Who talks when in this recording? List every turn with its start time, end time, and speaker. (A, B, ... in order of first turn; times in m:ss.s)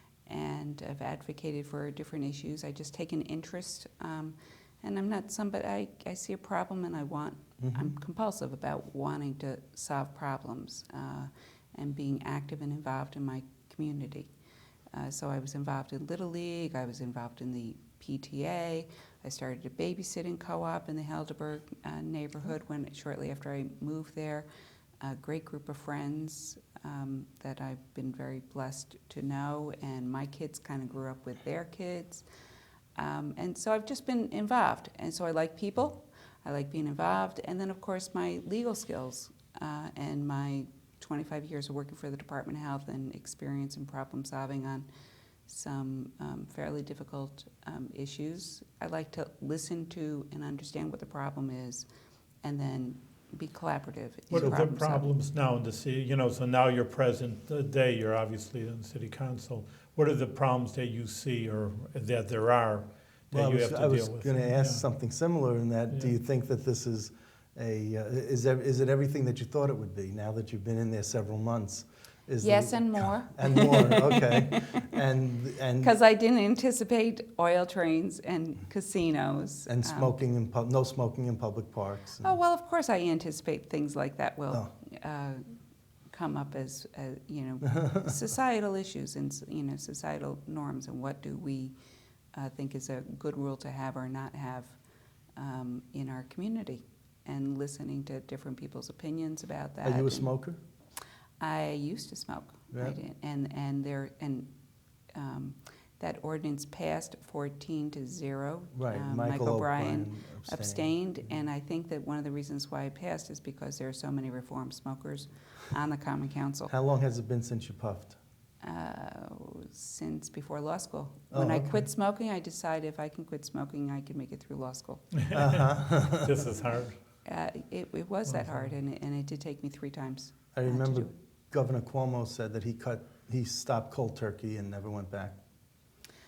0:00.2-0:14.3 A
0:07.6-0:07.9 B
0:14.9-0:24.5 A
0:25.0-0:32.2 A
0:33.0-0:44.9 A
0:45.5-0:51.9 A
0:52.4-0:55.1 A
0:54.3-1:04.8 C
0:54.3-0:54.6 B
1:03.3-1:16.0 B
1:12.4-1:14.9 A
1:15.8-1:20.1 A
1:19.6-1:22.4 B
1:22.2-1:25.4 A
1:26.1-1:31.7 A
1:27.8-1:28.1 B
1:32.3-1:34.8 A
1:35.4-1:40.3 A
1:39.8-1:40.6 B
1:41.4-1:44.5 A
1:42.7-1:43.0 B
1:45.1-1:56.7 A
1:48.7-1:51.0 B
1:56.7-1:58.2 B
1:58.6-2:05.1 A
2:01.3-2:01.8 B
2:05.3-2:07.0 C
2:05.3-2:06.4 B
2:07.2-2:11.1 A
2:08.3-2:08.7 C
2:10.5-2:15.4 B